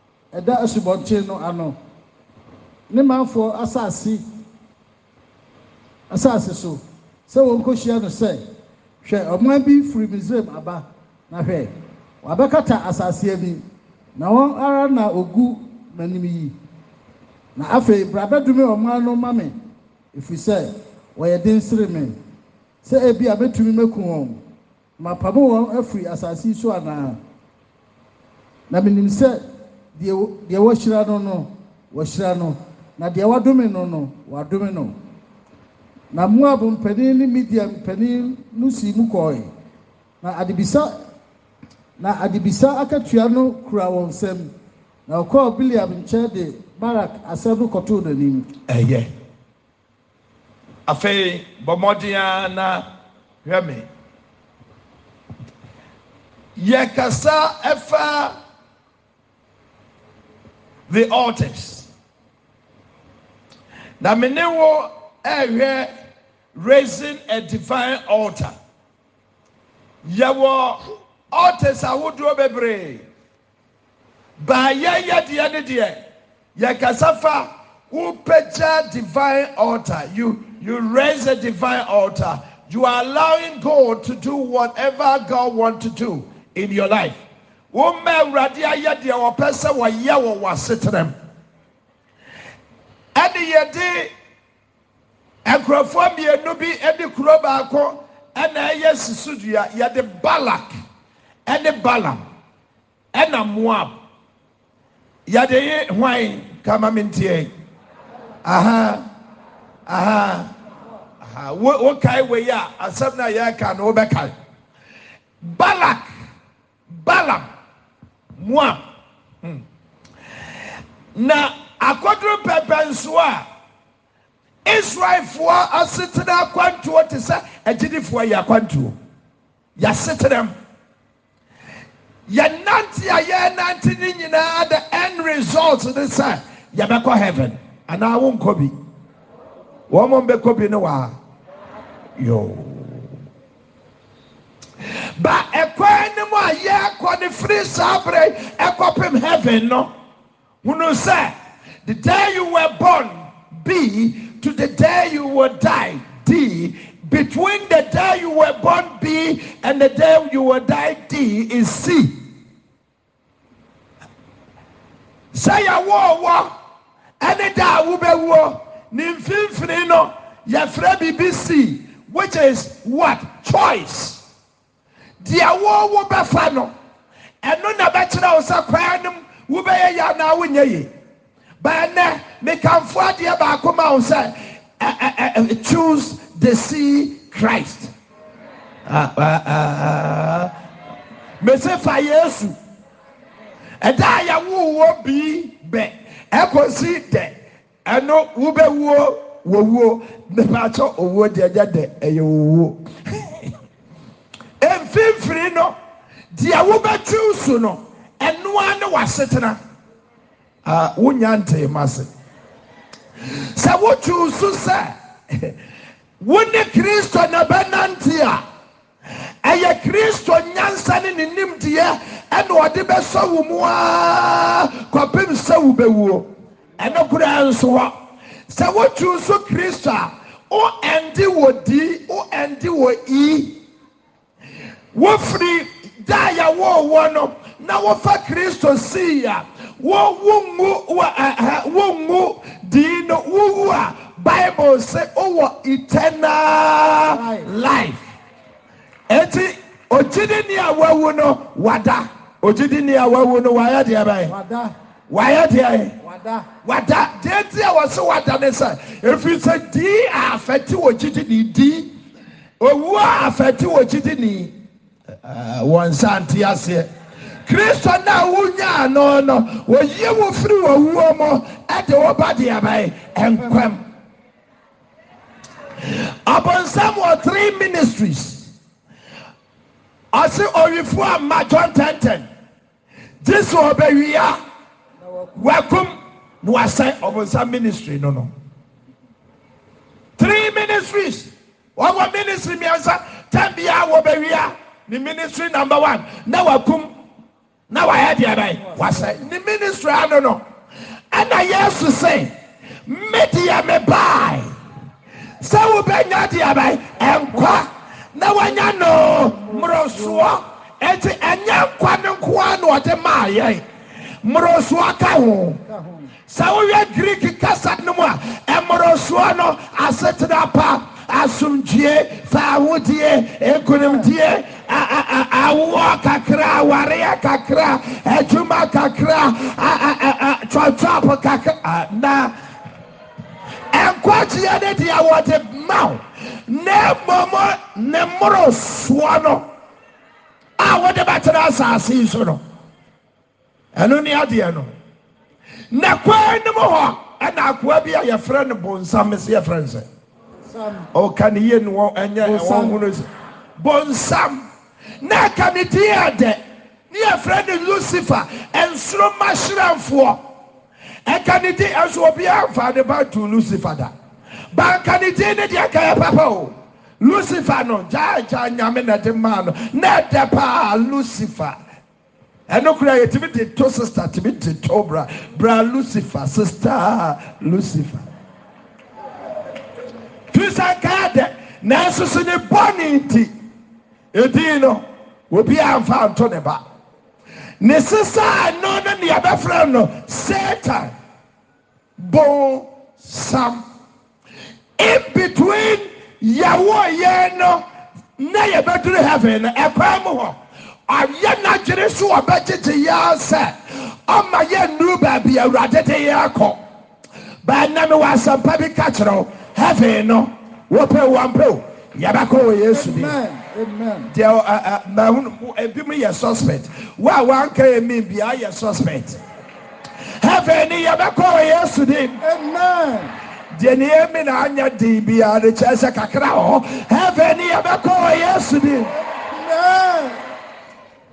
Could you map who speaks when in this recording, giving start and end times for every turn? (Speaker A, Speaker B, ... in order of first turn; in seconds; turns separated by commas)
Speaker A: 0.3-1.8, Speaker A: 2.9-4.2, Speaker A: 6.1-8.4, Speaker A: 9.0-13.6, Speaker A: 14.2-16.5, Speaker A: 17.6-19.6, Speaker A: 20.1-22.1, Speaker A: 22.8-24.4, Speaker A: 25.0-27.2, Speaker A: 28.7-29.4, Speaker A: 29.9-34.9, Speaker A: 36.1-39.5, Speaker A: 40.2-40.9, Speaker A: 42.0-44.5, Speaker A: 45.1-48.5, Speaker B: 48.7-49.1, Speaker B: 50.9-52.9, Speaker B: 53.4-53.9, Speaker B: 56.5-58.3, Speaker B: 60.9-61.9, Speaker B: 64.0-65.9, Speaker B: 66.5-68.5, Speaker B: 70.0-73.0, Speaker B: 74.4-76.0, Speaker B: 76.5-91.1, Speaker B: 93.1-94.1, Speaker B: 95.4-100.7, Speaker B: 101.5-102.2, Speaker B: 103.1-103.9, Speaker B: 105.3-107.5, Speaker B: 108.4-109.0, Speaker B: 109.9-110.5, Speaker B: 111.2-114.3, Speaker B: 115.4-116.1, Speaker B: 116.9-117.5, Speaker B: 118.4-118.8, Speaker B: 121.1-123.5, Speaker B: 124.6-128.9, Speaker B: 129.8-130.5, Speaker B: 132.3-138.7, Speaker B: 139.9-141.2, Speaker B: 142.2-143.1, Speaker B: 145.2-149.9, Speaker B: 150.6-162.2, Speaker B: 165.3-166.5, Speaker B: 167.2-174.2, Speaker B: 175.2-176.7, Speaker B: 177.4-180.9, Speaker B: 181.6-187.9, Speaker B: 188.8-190.5, Speaker B: 191.4-192.6, Speaker B: 193.8-203.5, Speaker B: 204.6-205.7, Speaker B: 206.3-209.6, Speaker B: 210.6-212.1, Speaker B: 213.5-215.5, Speaker B: 216.2-218.4, Speaker B: 219.4-233.6, Speaker B: 234.9-248.0, Speaker A: 247.1-247.5, Speaker B: 249.1-254.3, Speaker A: 254.2-254.7, Speaker B: 255.1-255.9, Speaker A: 256.0-256.5, Speaker B: 256.6-261.9, Speaker B: 262.6-264.5, Speaker B: 265.2-266.9, Speaker B: 267.5-273.8, Speaker B: 275.8-278.5, Speaker B: 280.1-282.3, Speaker B: 283.2-284.4, Speaker A: 285.1-285.3, Speaker B: 285.4-288.3, Speaker B: 290.2-296.9, Speaker B: 297.7-300.4, Speaker A: 298.6-299.2, Speaker B: 301.1-302.3, Speaker B: 302.9-304.5, Speaker B: 305.4-313.6, Speaker A: 307.1-307.6, Speaker A: 309.1-310.3, Speaker B: 314.2-315.6, Speaker A: 315.6-316.1, Speaker B: 316.3-332.4, Speaker A: 323.8-324.1, Speaker B: 333.7-339.4, Speaker B: 340.6-342.4, Speaker B: 343.7-344.7, Speaker B: 345.7-349.8, Speaker A: 350.4-350.9, Speaker B: 350.9-354.5, Speaker A: 352.2-352.8, Speaker B: 355.0-360.2, Speaker B: 361.1-363.9, Speaker B: 364.5-371.6, Speaker B: 372.5-378.0, Speaker B: 380.3-383.3, Speaker B: 384.1-386.6, Speaker B: 387.6-390.9, Speaker B: 392.0-393.6, Speaker B: 394.8-397.6, Speaker B: 398.2-400.4, Speaker B: 400.9-406.6, Speaker B: 407.4-413.1, Speaker A: 412.7-414.1, Speaker B: 414.1-419.2, Speaker B: 420.2-422.2, Speaker A: 422.2-423.1, Speaker B: 423.5-428.9, Speaker A: 428.9-430.2